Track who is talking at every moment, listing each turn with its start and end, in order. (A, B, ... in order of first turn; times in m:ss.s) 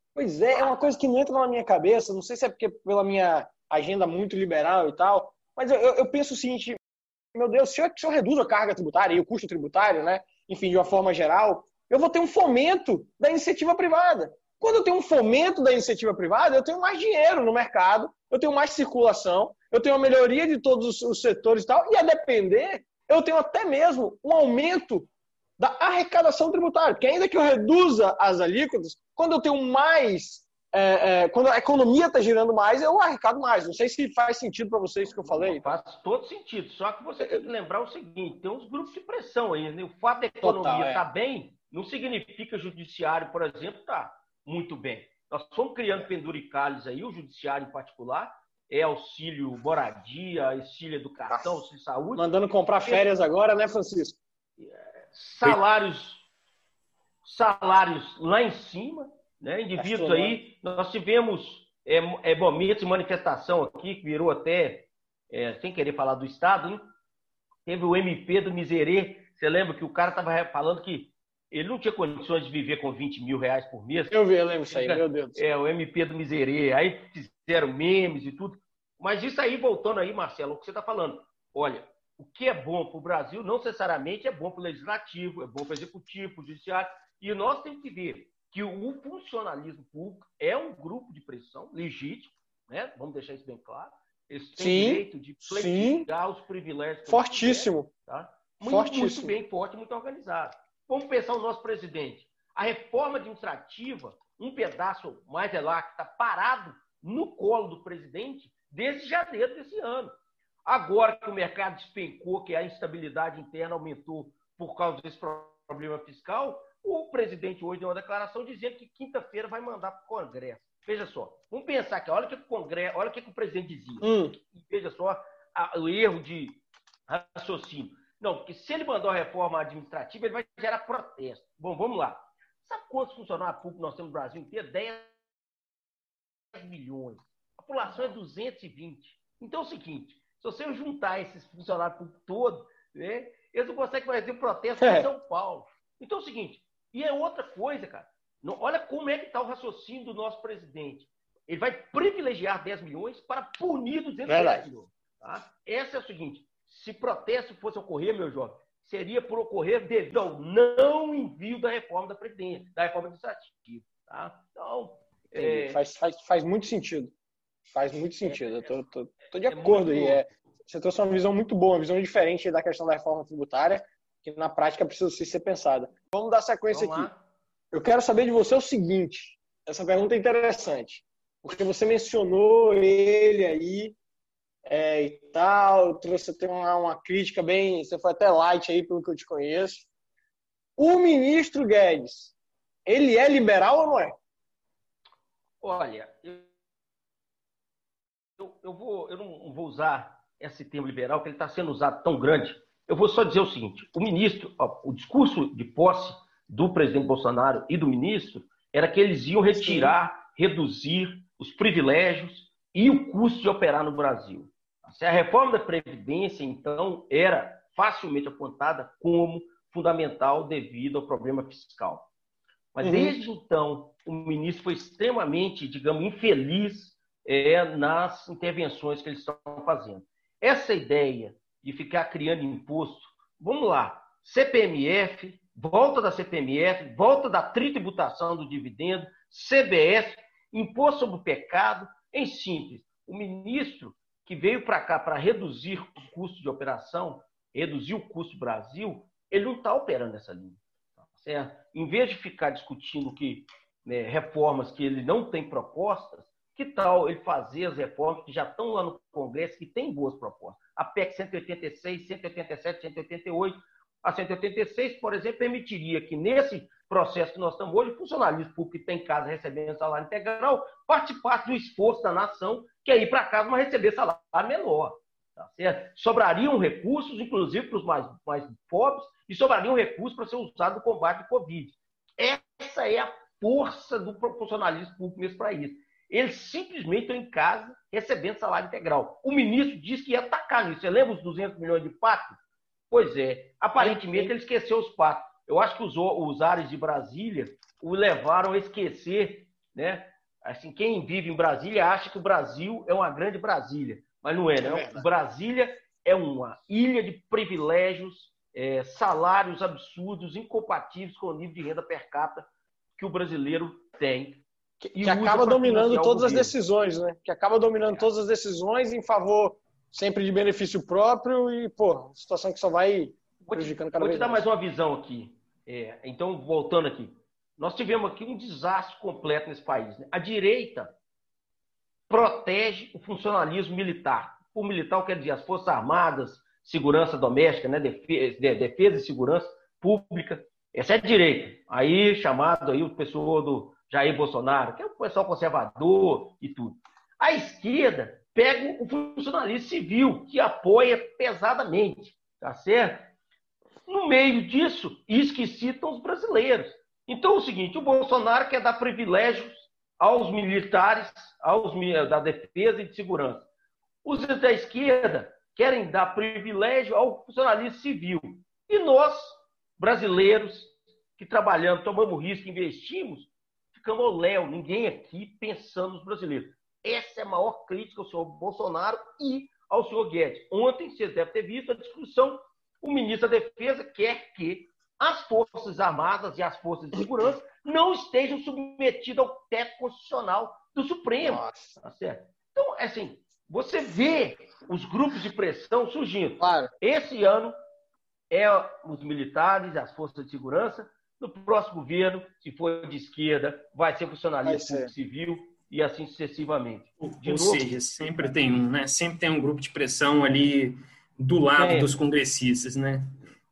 0:00.1-0:06.8 A
0:07.3-0:35.7 A
0:35.1-0:52.2 B
0:40.4-0:41.0 A
0:52.2-0:54.2 A
0:54.6-0:56.2 B
0:57.2-1:06.8 B
0:59.8-1:00.4 A
1:07.6-1:14.2 B
1:14.1-1:15.4 A
1:14.7-1:50.1 B
1:34.6-1:36.1 A
1:37.1-1:37.9 A
1:38.6-1:39.4 A
1:50.6-2:15.1 B
2:04.0-2:04.3 A
2:16.5-2:45.8 B
2:24.8-2:25.1 A
2:34.3-2:34.6 A
2:45.4-2:47.1 A
2:47.7-2:57.1 A
2:48.2-2:48.7 B
2:49.5-2:50.2 B
2:56.7-2:57.2 B
2:57.7-3:04.0 A
3:04.6-3:09.9 A
3:10.8-3:12.3 A
3:12.8-3:14.1 A
3:15.6-3:16.5 B
3:18.4-3:42.1 B
3:29.5-3:29.9 A
3:42.7-4:10.6 B
3:42.8-3:43.2 A
4:11.2-4:52.4 B
4:52.9-5:12.4 B
4:53.8-4:54.3 A
5:04.6-5:05.0 A
5:13.0-5:16.5 B
5:14.8-5:24.4 A
5:23.4-5:30.9 B
5:32.1-5:53.1 B
5:53.9-6:03.4 B
6:04.0-6:37.5 B
6:31.2-6:31.8 A
6:36.4-6:36.7 A
6:38.3-6:48.3 B
6:44.4-6:44.9 A
6:47.0-6:53.1 C
6:51.6-6:51.9 B